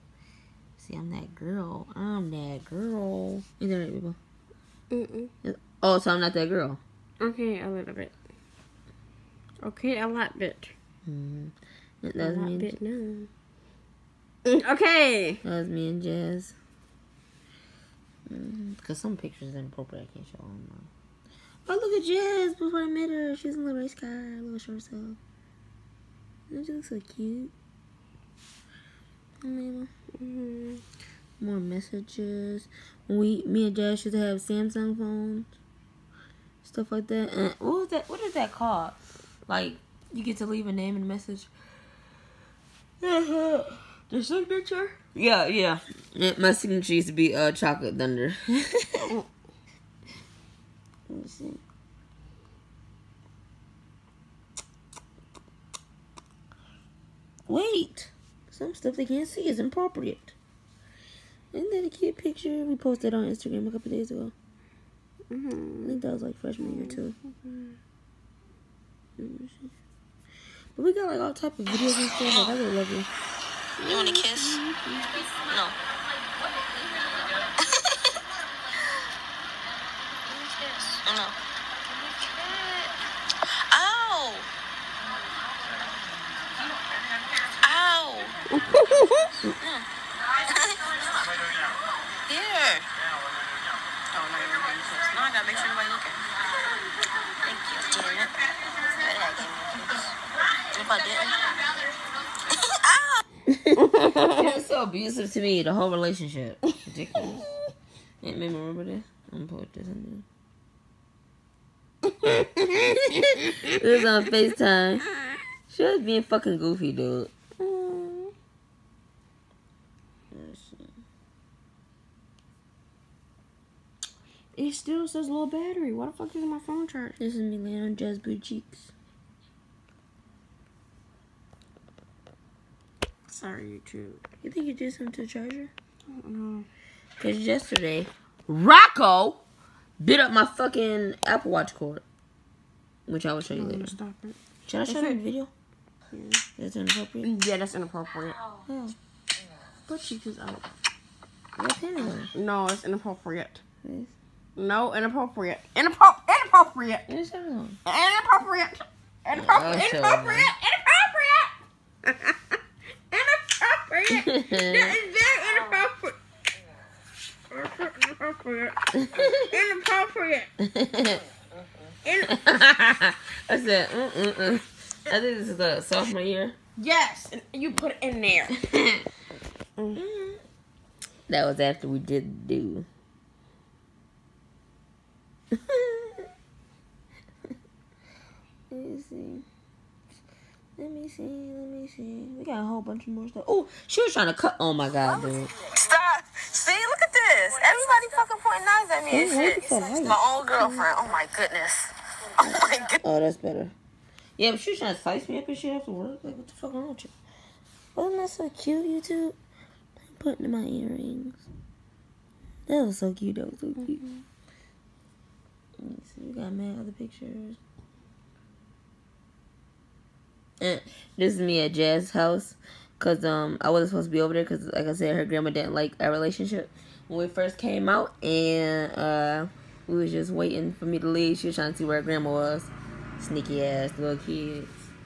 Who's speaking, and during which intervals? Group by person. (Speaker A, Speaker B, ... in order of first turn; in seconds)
Speaker A: 0.8-4.2, 5.4-6.8, 11.1-12.8, 15.4-16.6, 18.3-20.9, 21.7-25.2, 26.5-27.5, 29.4-29.9, 31.4-35.5, 36.6-41.5, 43.0-43.8, 45.1-49.1, 51.1-51.6, 57.5-60.4, 61.5-64.3, 65.8-67.2, 69.2-69.7, 70.8-73.1, 103.5-107.5, 108.2-110.2, 112.2-115.1, 115.7-117.3, 120.3-120.9, 127.2-128.9, 134.4-135.7, 137.2-139.4, 140.0-142.0, 143.1-144.0, 144.7-145.5, 146.6-147.3, 148.7-148.9, 151.6-152.3, 153.8-154.1, 157.1-157.8, 159.3-160.5, 164.1-164.9, 170.6-171.2, 172.2-176.6, 178.6-179.1, 179.9-180.4, 181.3-182.9, 185.5-186.3, 188.7-189.5, 190.8-195.5, 199.1-200.1, 203.0-203.7, 204.4-207.1, 207.9-209.4, 210.0-211.5, 212.7-214.1, 215.8-217.6, 220.6-234.9
Speaker B: 4.9-5.3, 7.2-8.1, 9.6-10.8, 12.2-13.3, 14.4-15.4, 30.2-30.8, 44.1-45.0, 65.3-66.0, 66.6-67.7, 73.8-75.3, 88.5-89.5, 94.4-95.0, 103.9-104.3, 117.6-118.3, 124.6-127.2, 133.3-134.2, 136.1-136.7, 143.5-145.2, 146.1-146.4, 147.2-148.4, 149.9-150.7, 152.3-153.6, 154.6-157.1, 157.8-162.6, 163.1-166.2, 167.5-170.5, 172.1-172.4, 176.8-178.6, 199.1-200.2
Speaker C: 74.1-74.5, 80.3-81.4, 82.0-82.9, 83.7-84.5, 87.6-88.4, 90.5-91.2, 92.3-92.9, 95.4-96.2, 97.5-98.3, 98.9-100.1, 100.7-101.7, 102.5-103.2, 195.7-203.0